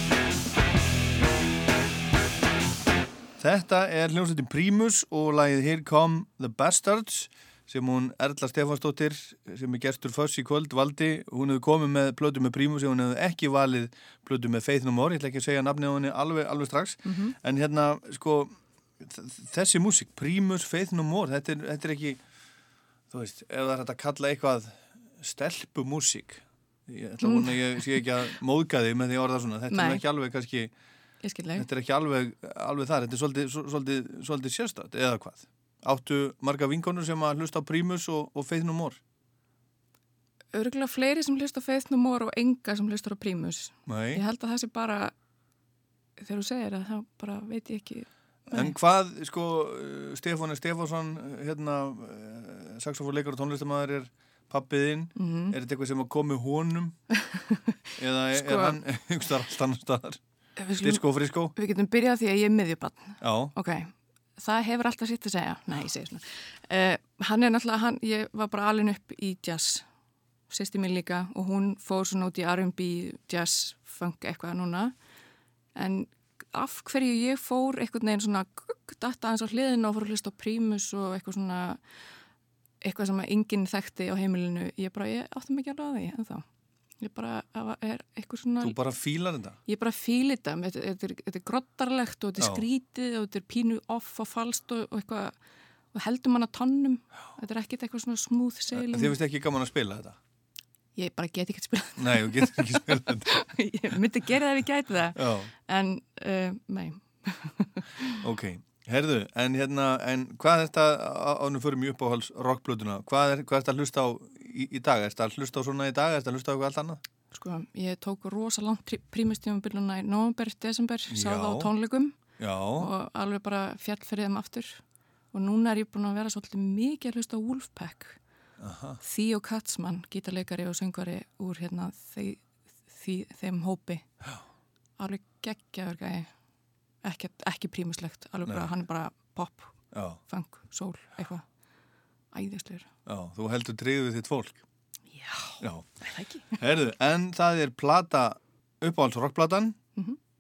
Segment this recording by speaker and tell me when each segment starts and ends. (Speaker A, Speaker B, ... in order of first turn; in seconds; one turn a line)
Speaker A: 3.4-22.2
Speaker B: 17.1-17.4
Speaker A: 23.1-30.7
Speaker B: 27.2-28.1
Speaker B: 29.7-30.0
Speaker B: 31.2-31.7
Speaker A: 31.6-39.0
Speaker B: 40.5-45.1
Speaker A: 43.9-44.2
Speaker B: 46.2-48.8
Speaker A: 48.5-57.0
Speaker B: 55.2-55.6
Speaker B: 57.1-57.8
Speaker A: 58.0-60.2
Speaker B: 58.3-58.8
Speaker B: 60.6-69.8
Speaker A: 60.8-61.5
Speaker A: 63.2-63.5
Speaker B: 70.5-74.9
Speaker B: 75.8-81.8
Speaker B: 82.8-86.5
Speaker B: 87.0-88.8
Speaker A: 88.6-89.6
Speaker B: 89.7-95.4
Speaker A: 92.4-92.7
Speaker B: 95.9-99.2
Speaker A: 98.7-100.2
Speaker B: 101.0-108.2
Speaker A: 102.0-103.4
Speaker A: 105.2-105.5
Speaker A: 108.2-117.0
Speaker B: 117.3-122.2
Speaker A: 121.1-121.7
Speaker A: 122.4-122.9
Speaker B: 122.8-124.8
Speaker B: 125.3-128.2
Speaker A: 128.6-129.0
Speaker B: 129.0-134.1
Speaker B: 135.0-136.3
Speaker B: 137.0-139.8
Speaker A: 139.9-140.2
Speaker B: 140.3-141.4
Speaker B: 142.3-142.9
Speaker A: 143.1-144.6
Speaker B: 145.1-146.6
Speaker A: 145.6-145.9
Speaker A: 146.5-149.8